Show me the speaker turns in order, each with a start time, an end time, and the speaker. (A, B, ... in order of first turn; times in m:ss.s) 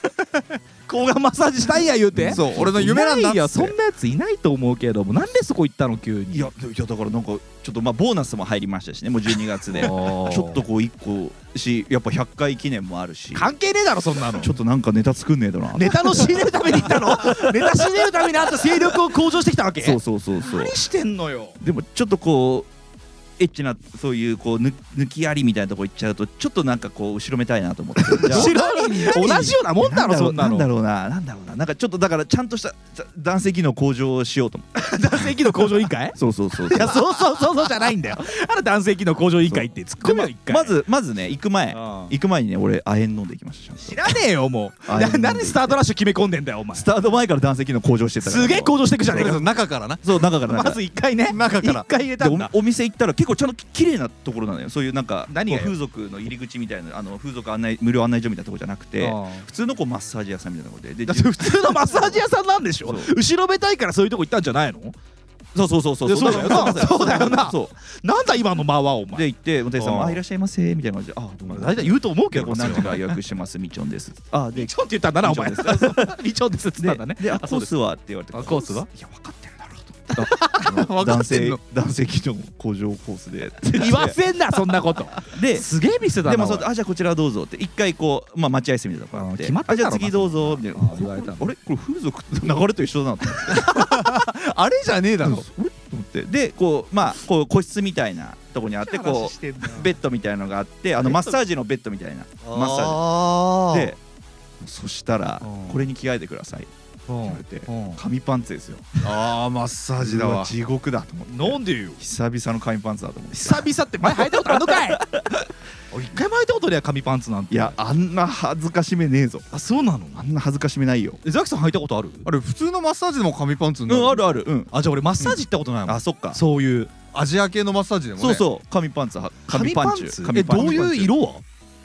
0:00.9-0:06.5 A
0:02.2-0:02.7 B
0:02.3-0:03.8 C
0:06.3-0:13.5 B
0:09.7-0:10.6 A
0:13.3-0:14.6 A
0:14.4-0:19.0 B
0:15.7-0:21.6 A
0:19.8-0:20.8 B
0:21.6-0:22.7 B
0:23.4-0:34.9 B
0:28.0-0:30.7 A
0:28.2-0:29.1 C
0:34.8-0:40.8 A
0:36.2-0:37.5 B
0:39.5-0:44.2 B
0:41.7-0:42.1 A
0:43.8-0:46.9 A
0:44.9-0:45.8 B
0:46.7-0:49.4 B
0:48.2-0:49.4 A
0:49.1-0:50.0 C
0:50.0-0:50.8 B
0:50.5-0:52.5 A
0:51.3-0:51.9 C
0:52.2-1:02.2 B
0:55.3-0:55.7 A
0:59.0-0:59.5 A
1:01.1-1:05.0 A
1:02.8-1:03.1 B
1:05.6-1:07.7 B
1:06.0-1:10.2 A
1:09.1-1:16.2 B
1:11.5-1:13.1 A
1:14.5-1:17.7 A
1:16.8-1:24.2 B
1:18.3-1:18.9 A
1:20.1-1:20.9 A
1:20.6-1:21.6 C
1:23.6-1:26.7 A
1:25.2-1:25.7 B
1:26.2-1:33.8 B
1:29.1-1:31.5 A
1:33.5-1:35.5 C
1:33.5-1:34.1 A
1:35.2-1:44.0 B
1:38.7-1:39.9 A
1:41.0-1:41.4 A
1:42.5-1:44.0 C
1:44.6-1:46.7 B
1:45.4-1:45.9 A
1:47.1-1:48.0 A
1:47.2-1:49.1 B
1:49.0-1:50.5 C
1:50.0-1:55.4 B
1:51.3-1:52.0 A
1:53.3-1:55.1 A
1:55.9-1:57.8 A
1:57.5-1:59.5 B
1:59.5-2:00.3 A
2:00.2-2:01.2 B
2:01.2-2:02.3 A
2:02.2-2:04.4 C
2:03.9-2:06.4 B
2:04.7-2:06.9 A
2:07.1-2:08.5 C
2:08.2-2:11.1 B
2:09.5-2:11.4 A
2:10.6-2:11.1 C